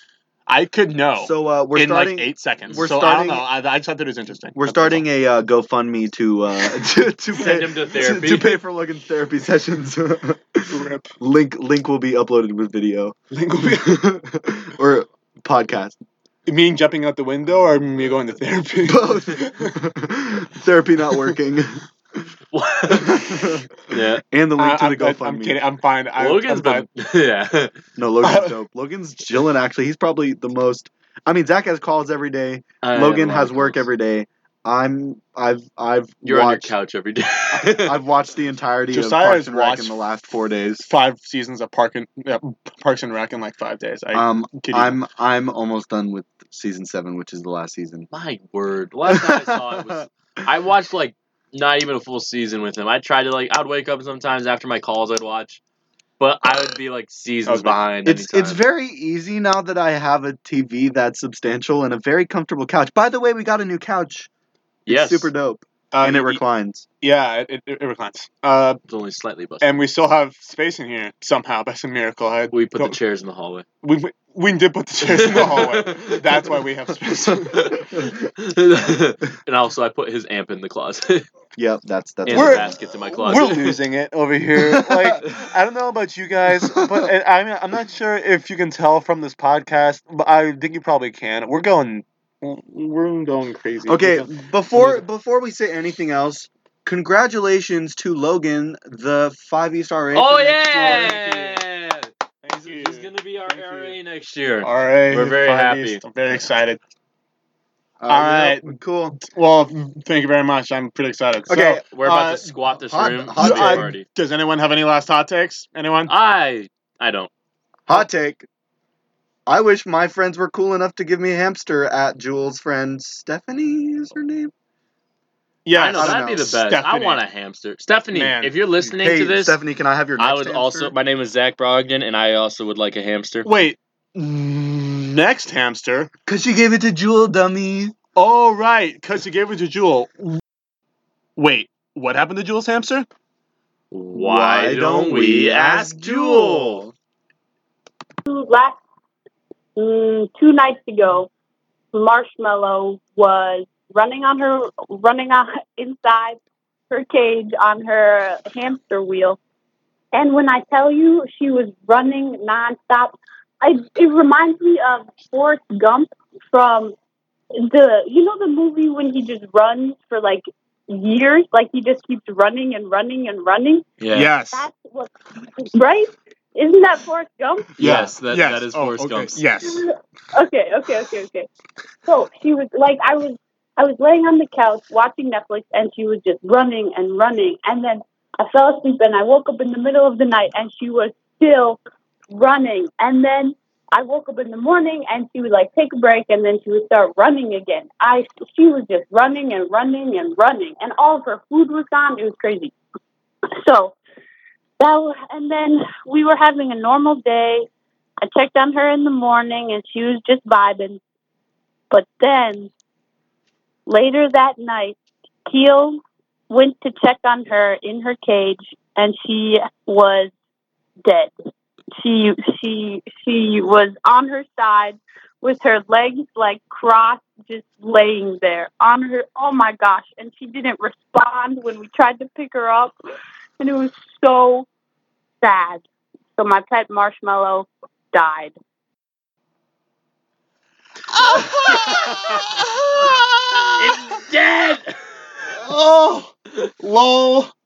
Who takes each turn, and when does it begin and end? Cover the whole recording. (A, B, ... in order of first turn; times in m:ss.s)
0:00.5-0:05.0 A
0:01.2-0:03.5 B
0:04.6-0:16.0 B
0:07.3-0:08.6 C
0:10.7-0:11.1 A
0:13.3-0:14.0 A
0:16.5-0:19.7 A
0:18.9-0:22.3 B
0:22.5-0:24.2 C
0:22.9-0:25.6 B
0:24.6-0:26.9 A
0:26.2-0:27.7 C
0:28.0-0:36.7 B
0:28.2-0:28.6 A
0:32.8-0:33.8 C
0:36.2-0:38.0 C
0:37.5-0:40.9 B
0:38.9-0:39.9 A
0:40.8-0:45.0 A
0:44.1-0:48.1 B
0:48.1-0:55.6 C
0:49.1-0:50.0 B
0:56.2-0:58.6 C
0:57.5-0:58.0 A
0:58.0-1:04.3 B
1:04.9-1:05.3 C
1:04.9-1:06.9 B
1:05.9-1:06.4 A
1:07.0-1:08.8 A
1:08.9-1:09.9 C
1:09.6-1:13.0 A
1:12.5-1:13.7 C
1:13.8-1:17.8 A
1:15.0-1:16.6 C
1:17.3-1:21.3 C
1:21.6-1:22.8 B
1:22.3-1:23.8 C
1:22.3-1:35.0 A
1:23.3-1:23.6 B
1:24.8-1:25.2 B
1:26.6-1:27.1 B
1:33.9-1:41.1 B
1:40.1-1:42.1 C
1:40.5-1:41.6 A
1:42.4-1:44.0 A
1:42.6-1:46.5 C
1:44.6-1:46.8 A
1:48.0-1:49.2 B
1:48.1-1:52.5 A
1:51.5-1:51.9 B
1:51.5-1:54.1 C
1:52.9-1:53.9 B
1:53.4-1:56.1 A
1:56.1-1:57.3 C
1:57.9-1:58.5 B
1:59.5-2:04.5 B
2:05.6-2:07.2 A
2:05.8-2:09.6 C
2:05.9-2:06.5 B
2:08.1-2:08.5 A
2:08.9-2:11.0 B
2:10.2-2:13.5 C
2:13.4-2:16.1 A
2:16.3-2:18.0 B
2:18.2-2:20.4 A
2:21.4-2:23.1 A
2:23.9-2:26.8 C
2:24.1-2:26.9 B
2:28.3-2:28.8 D
2:29.8-2:31.3 D
2:31.9-2:36.4 D
2:36.9-2:39.4 D
2:40.1-2:47.0 D
2:47.6-2:53.9 D
2:54.0-2:54.3 C
2:54.1-2:54.7 A
2:54.5-2:57.7 D
2:57.8-2:59.4 C
2:57.8-2:59.9 A
2:59.6-3:01.5 D
3:02.1-3:22.8 D
3:23.6-3:24.0 D
3:24.8-3:27.7 D
3:28.2-3:31.0 D
3:31.9-3:32.7 D
3:33.9-3:40.3 D
3:41.0-3:41.3 D
3:42.0-3:52.9 D
3:53.6-3:54.7 D
3:55.4-3:55.8 D
3:56.4-3:58.5 D
4:01.1-4:04.2 A
4:01.7-4:02.5 C
4:03.8-4:05.2 C
4:05.5-4:07.5 A